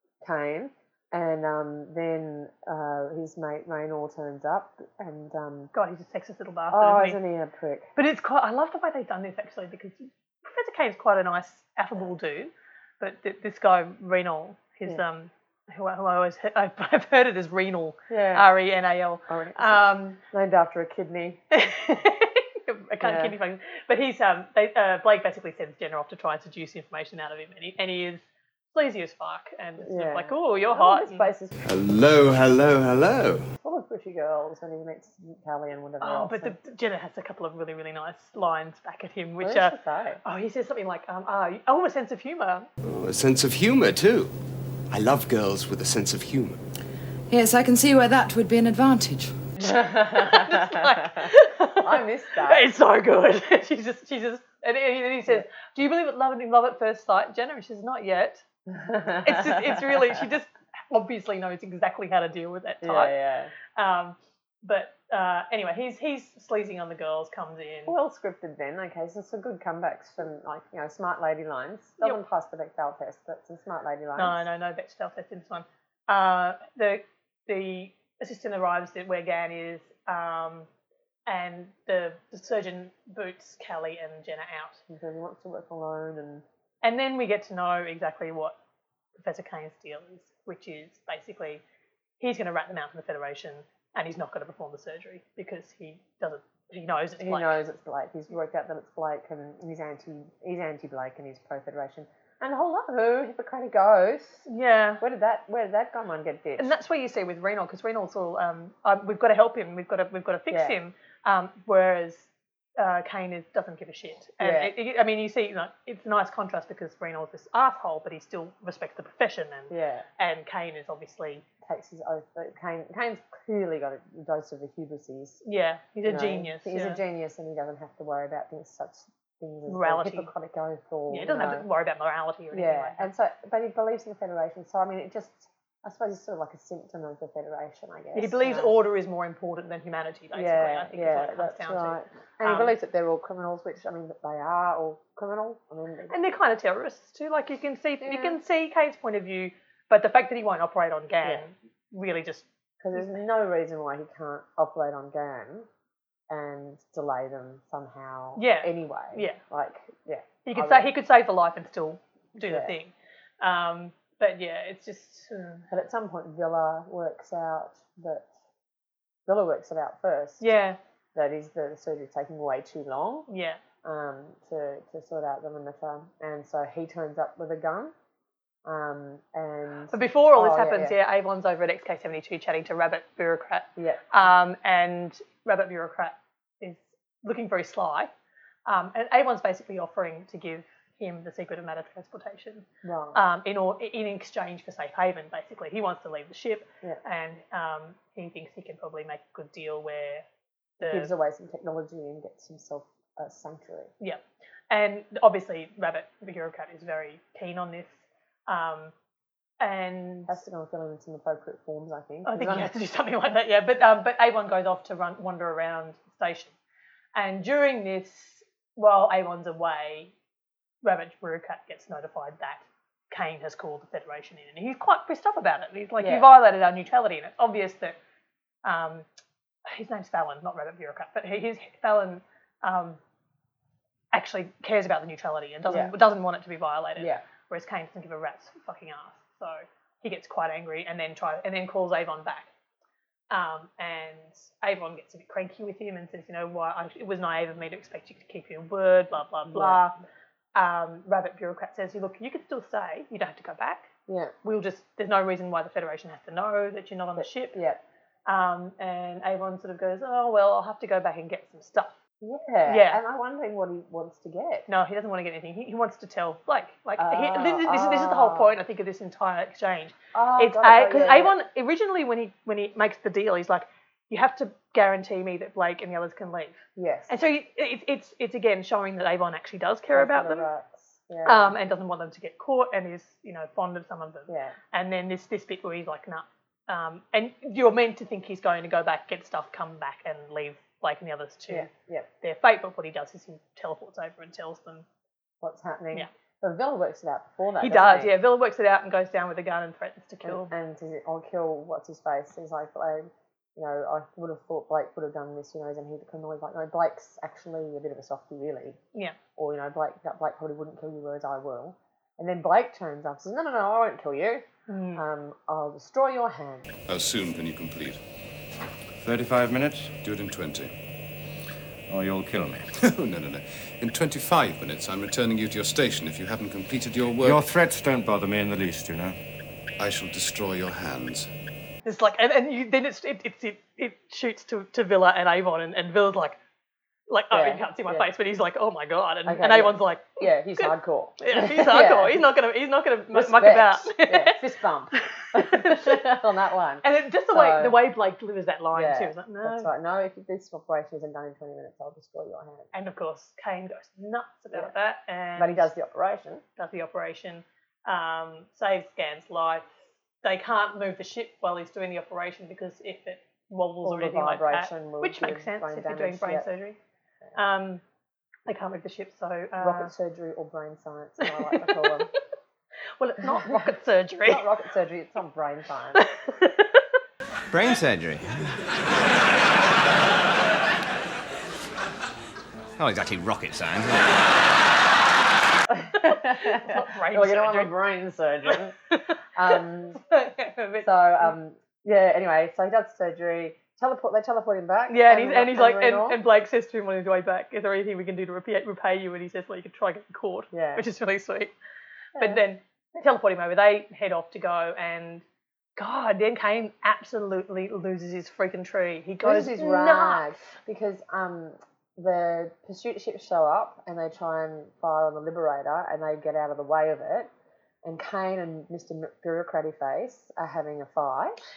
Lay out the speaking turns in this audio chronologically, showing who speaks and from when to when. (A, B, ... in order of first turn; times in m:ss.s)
0:00.2-0:05.7 A
0:05.7-0:07.2 B
0:06.7-0:07.9 A
0:08.0-0:20.2 B
0:18.1-0:18.5 A
0:19.3-0:21.4 A
0:21.5-0:31.3 B
0:23.0-0:23.4 A
0:29.8-0:31.5 A
0:31.6-0:33.4 C
0:33.6-0:36.6 A
0:36.0-0:42.7 B
0:39.4-0:40.2 A
0:42.8-0:44.3 C
0:44.9-0:46.6 C
0:47.3-0:49.3 D
0:49.6-0:52.7 A
0:50.0-0:58.4 B
0:58.7-1:00.2 A
0:59.0-1:03.1 B
1:02.8-1:03.5 A
1:03.8-1:07.9 B
1:07.9-1:14.4 A
1:14.2-1:20.7 B
1:21.3-1:24.8 B
1:24.9-1:26.4 A
1:26.8-1:28.6 B
1:29.2-1:31.6 B
1:32.2-1:37.6 B
1:37.2-1:44.5 A
1:44.5-1:45.0 B
1:45.0-1:46.8 A
1:46.6-2:01.4 B
1:50.5-1:50.8 A
1:54.4-1:54.7 A
1:59.7-2:00.0 A
2:01.6-2:05.4 A
2:05.4-2:07.0 B
2:06.0-2:11.7 A
2:09.7-2:10.3 B
2:11.1-2:13.1 B
2:12.5-2:18.7 A
2:18.1-2:22.8 B
2:20.3-2:26.2 A
2:26.1-2:33.1 B
2:28.0-2:28.4 A
2:32.8-2:35.7 A
2:36.3-2:40.9 A
2:38.4-2:39.4 B
2:40.4-2:45.7 B
2:42.4-2:42.7 A
2:45.7-2:48.3 A
2:49.3-2:50.5 A
2:50.4-2:50.8 B
2:51.1-2:53.3 A
2:53.3-2:53.6 B
2:53.8-2:57.9 A
2:58.6-3:01.0 A
2:59.9-3:08.1 B
3:03.8-3:04.1 A
3:08.6-3:20.2 B
3:12.8-3:13.2 A
3:20.8-3:21.1 B
3:20.8-3:23.9 A
3:24.0-3:28.9 B
3:29.6-3:30.4 B
3:30.3-3:32.7 A
3:32.2-3:36.5 B
3:37.1-3:40.1 B
3:40.8-3:48.0 B
3:46.0-3:46.3 A
3:48.6-3:49.0 B
3:49.6-3:53.0 B
3:54.1-4:02.5 B
3:55.6-3:56.0 A
3:57.0-3:57.2 A
4:03.3-4:10.0 B
4:09.5-4:09.8 A
4:10.5-4:13.9 B
4:14.1-4:14.3 A
4:14.4-4:17.6 B
4:17.2-4:17.8 A
4:18.2-4:22.0 B
4:22.2-4:24.7 A
4:22.6-4:23.0 B
4:24.7-4:40.5 B
4:27.0-4:28.5 A
4:30.1-4:31.4 A
4:36.8-4:37.2 A
4:39.9-4:41.6 A
4:41.2-4:51.7 B
4:44.3-4:44.6 A
4:51.5-4:52.1 A
4:52.2-4:54.8 B
4:55.4-4:58.1 A
4:57.6-5:00.5 B
5:00.2-5:08.8 A
5:09.4-5:16.7 A
5:14.7-5:15.0 B
5:16.9-5:18.0 E
5:19.0-5:19.9 F
5:20.0-5:20.7 E
5:21.9-5:22.7 F
5:22.8-5:27.5 E
5:27.2-5:29.2 F
5:29.8-5:31.3 E
5:31.8-5:36.4 B
5:37.1-5:44.4 B
5:37.3-5:38.1 A
5:39.2-5:42.2 A
5:43.1-5:47.8 A
5:45.3-5:46.1 B
5:46.8-5:49.7 B
5:48.7-5:52.7 A
5:52.7-5:55.7 B
5:55.4-5:56.4 A
5:56.6-6:06.8 B
6:03.8-6:06.5 A
6:07.3-6:07.8 B
6:08.5-6:09.9 B
6:09.6-6:12.1 A
6:11.2-6:12.0 B
6:13.0-6:14.5 B
6:13.2-6:16.0 A
6:16.0-6:16.9 B
6:17.5-6:18.5 C
6:22.8-6:24.2 C
6:25.7-6:28.8 A
6:26.0-6:27.7 B
6:28.5-6:31.3 B
6:29.3-6:30.0 A
6:30.8-6:36.2 A
6:34.9-6:41.5 B
6:40.5-6:40.8 A
6:42.2-6:42.4 A
6:42.2-6:45.2 B
6:45.8-6:50.5 B
6:49.2-6:57.3 A
6:57.8-7:01.4 A